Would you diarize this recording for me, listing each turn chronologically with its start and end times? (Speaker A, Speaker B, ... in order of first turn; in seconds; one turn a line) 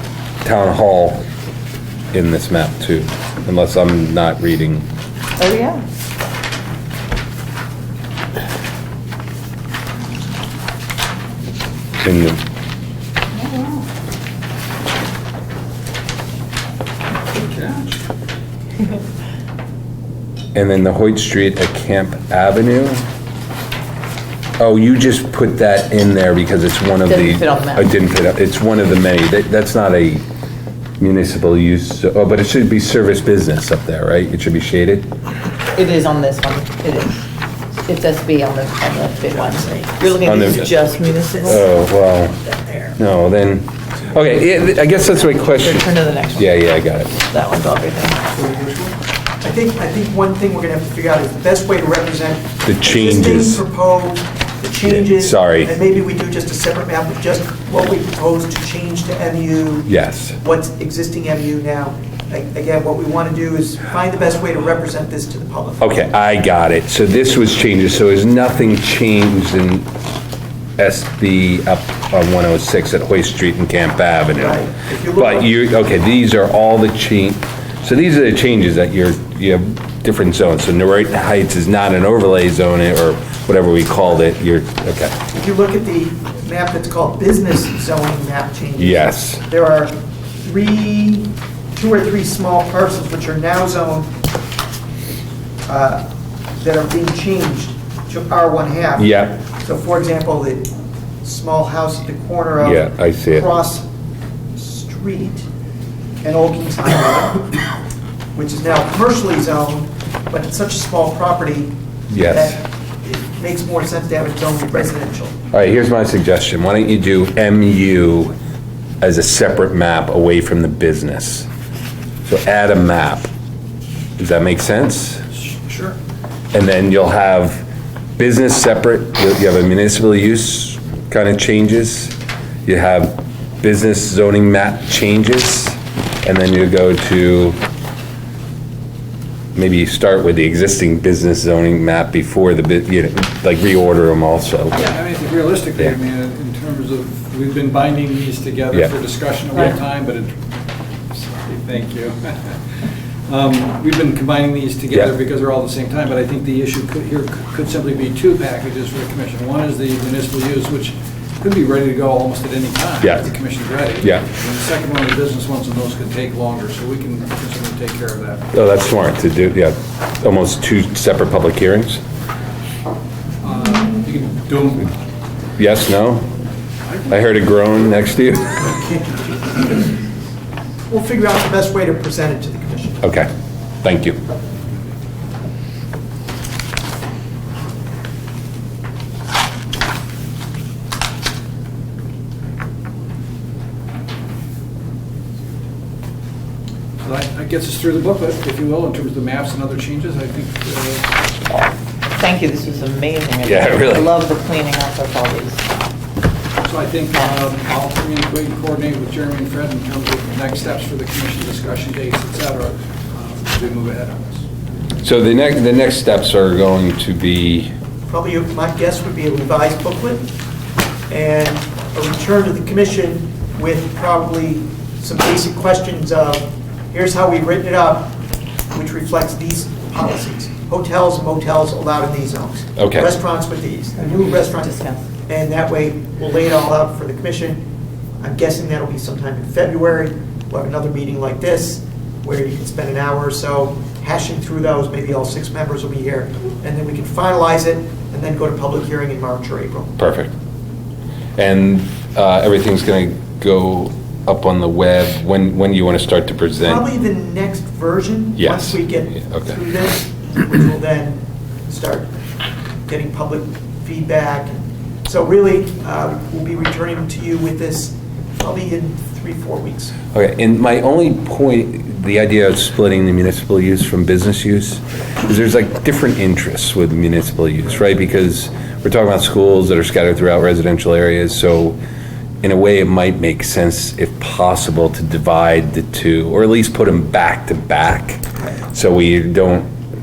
Speaker A: 0.4-1.2
Speaker A: 2.1-4.9
Speaker B: 5.4-5.8
Speaker A: 12.0-12.4
Speaker B: 13.4-13.8
Speaker C: 17.3-18.0
Speaker A: 20.5-23.1
Speaker A: 24.6-30.2
Speaker B: 27.1-27.9
Speaker A: 31.0-35.1
Speaker B: 35.8-37.3
Speaker B: 37.8-41.7
Speaker D: 39.3-41.6
Speaker A: 40.2-40.8
Speaker A: 41.4-42.4
Speaker D: 42.5-42.9
Speaker A: 43.0-47.2
Speaker B: 45.5-48.2
Speaker C: 48.3-49.0
Speaker D: 49.4-65.8
Speaker A: 52.6-53.6
Speaker A: 54.8-55.7
Speaker A: 59.9-60.4
Speaker A: 65.8-69.9
Speaker A: 70.8-74.7
Speaker D: 74.4-75.5
Speaker A: 75.2-85.2
Speaker D: 85.3-94.1
Speaker A: 88.8-89.4
Speaker D: 95.7-96.0
Speaker D: 96.6-100.7
Speaker A: 99.0-99.4
Speaker D: 101.2-103.9
Speaker A: 102.6-103.5
Speaker D: 104.5-105.5
Speaker D: 106.2-107.7
Speaker D: 108.3-115.3
Speaker A: 112.1-112.5
Speaker A: 115.5-118.3
Speaker A: 119.0-121.5
Speaker A: 122.2-123.3
Speaker A: 124.2-125.2
Speaker C: 125.7-126.0
Speaker A: 126.5-127.7
Speaker A: 128.2-137.6
Speaker A: 139.6-144.8
Speaker C: 144.7-150.4
Speaker C: 151.1-168.5
Speaker A: 163.0-163.3
Speaker A: 168.5-172.0
Speaker C: 173.4-174.9
Speaker A: 175.6-176.3
Speaker A: 177.1-178.7
Speaker D: 180.9-183.0
Speaker A: 183.0-183.3
Speaker A: 183.8-184.2
Speaker C: 197.0-201.2
Speaker B: 201.5-205.7
Speaker A: 203.4-204.1
Speaker C: 206.6-214.5
Speaker A: 215.0-217.7
Speaker D: 218.1-220.2
Speaker D: 221.1-228.2
Speaker D: 228.7-234.8
Speaker A: 232.8-233.1
Speaker B: 234.0-235.0
Speaker D: 235.3-237.6
Speaker D: 238.2-249.9
Speaker A: 250.0-250.3
Speaker A: 251.4-256.8
Speaker D: 256.6-262.1
Speaker A: 258.4-259.5
Speaker D: 262.9-269.9
Speaker A: 270.1-281.8
Speaker A: 282.4-289.7